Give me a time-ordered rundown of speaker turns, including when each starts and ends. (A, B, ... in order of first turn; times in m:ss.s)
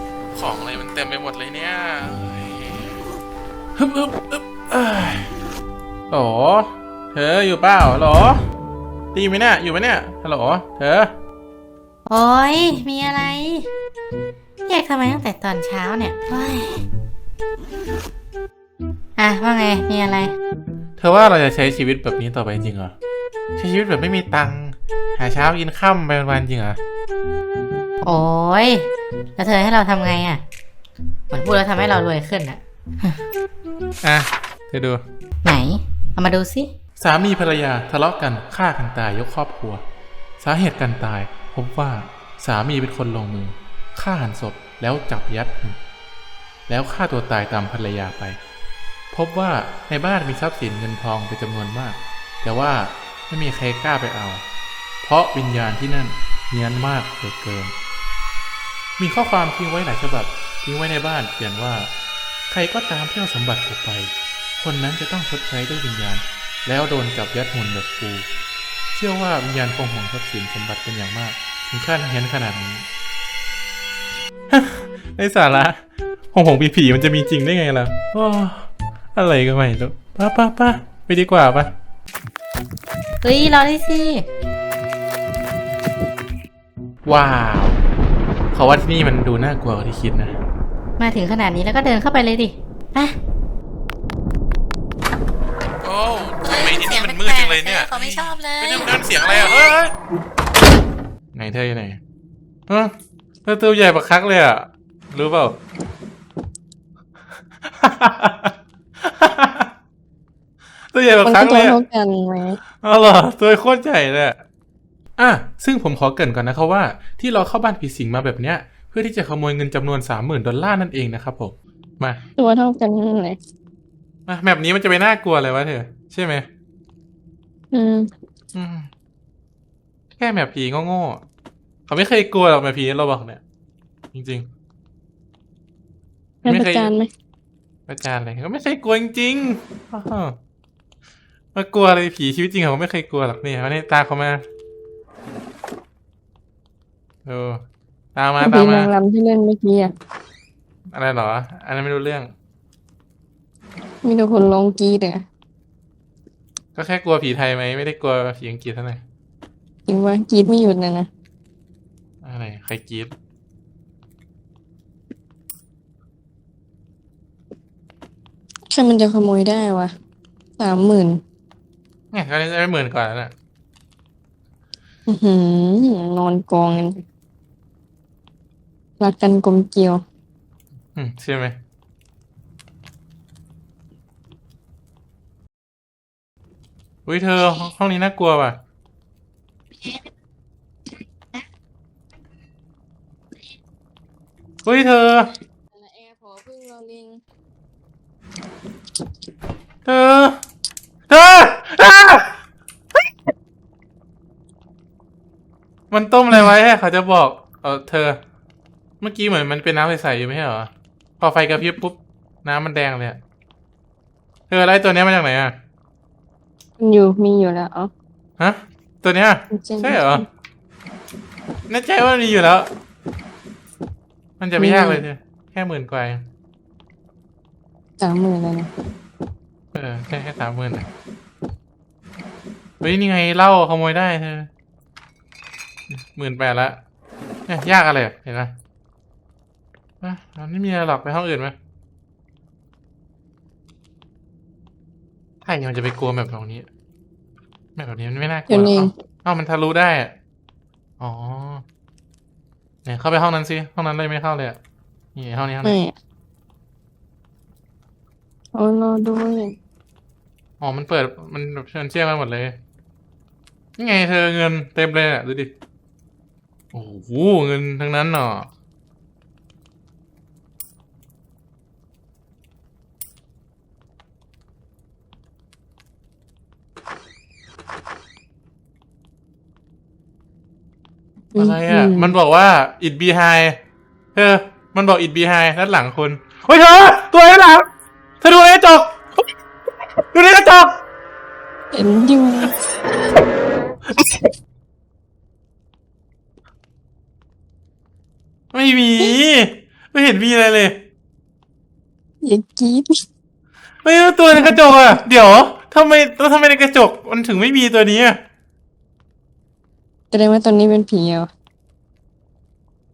0:00.3-0:02.9 A
0:03.8-0:05.3 A
0:06.1-0:08.4 A
0:09.1-0:11.1 A
0:12.1-0:13.7 B
0:14.6-0:16.8 B
0:19.2-0:20.3 B
0:21.0-0:22.9 A
0:23.6-0:26.8 A
0:28.0-0:30.4 B
0:31.3-0:33.2 B
0:34.0-0:35.0 A
0:35.4-0:36.7 B
0:37.0-0:39.8 A
0:40.4-0:45.8 A
0:46.7-0:48.4 A
0:49.1-0:54.4 A
0:55.0-0:57.7 A
0:59.0-1:01.9 A
1:02.5-1:08.3 A
1:08.9-1:12.8 A
1:14.5-1:15.8 A
1:16.3-1:21.7 A
1:23.2-1:24.2 B
1:27.0-1:27.8 A
1:28.5-1:30.4 A
1:31.0-1:33.1 B
1:35.8-1:39.9 A
1:36.4-1:38.9 B
1:41.3-1:42.0 A
1:42.7-1:42.9 A
1:43.4-1:45.6 A
1:47.7-1:49.7 A
1:50.9-1:51.8 A
1:51.2-1:52.6 C
1:52.8-1:54.4 A
1:55.2-2:02.2 A
2:02.4-2:03.4 C
2:04.3-2:06.4 A
2:07.7-2:08.1 C
2:08.5-2:08.9 A
2:10.2-2:11.2 A
2:11.9-2:13.4 A
2:14.1-2:14.5 A
2:16.4-2:17.1 C
2:16.4-2:16.9 A
2:17.9-2:20.4 A
2:21.5-2:24.4 A
2:27.2-2:27.6 A
2:28.1-2:28.9 A
2:28.4-2:29.9 C
2:30.9-2:32.3 A
2:34.0-2:35.2 C
2:36.7-2:39.0 A
2:39.9-2:41.1 C
2:42.2-2:43.1 A
2:48.7-2:49.9 C
2:50.6-2:51.2 C
2:52.1-2:53.3 A
2:55.1-2:57.0 C
2:59.0-3:00.0 C
3:00.9-3:01.6 A
3:07.0-3:08.6 A
3:14.6-3:15.3 A
3:15.7-3:17.2 C
3:19.8-3:20.4 A
3:21.1-3:22.3 A
3:25.9-3:28.2 A
3:29.0-3:33.2 A
3:34.5-3:35.5 A
3:36.8-3:37.9 C
3:38.4-3:40.2 A
3:39.5-3:40.2 C
3:41.7-3:42.7 A
3:44.4-3:46.2 A
3:44.6-3:45.0 C
3:48.0-3:48.7 C
3:49.7-3:50.9 A
3:52.8-3:54.5 A
3:55.9-3:56.8 A
3:57.5-3:58.5 A
4:00.0-4:01.5 A
4:05.4-4:06.7 A
4:07.8-4:10.1 A
4:08.5-4:08.9 C
4:11.0-4:11.6 A
4:12.8-4:14.6 A
4:15.2-4:15.8 A
4:15.6-4:15.9 C
4:18.5-4:19.5 C
4:20.6-4:22.6 A
4:23.8-4:25.5 A
4:26.7-4:28.5 A
4:41.3-4:42.1 C
4:41.4-4:43.6 A
4:44.1-4:47.7 A
4:48.2-4:49.0 A
4:50.1-4:50.7 A
4:51.7-4:52.5 C
4:58.5-5:00.8 A
5:02.2-5:03.0 C
5:03.8-5:08.2 A
5:10.1-5:11.3 C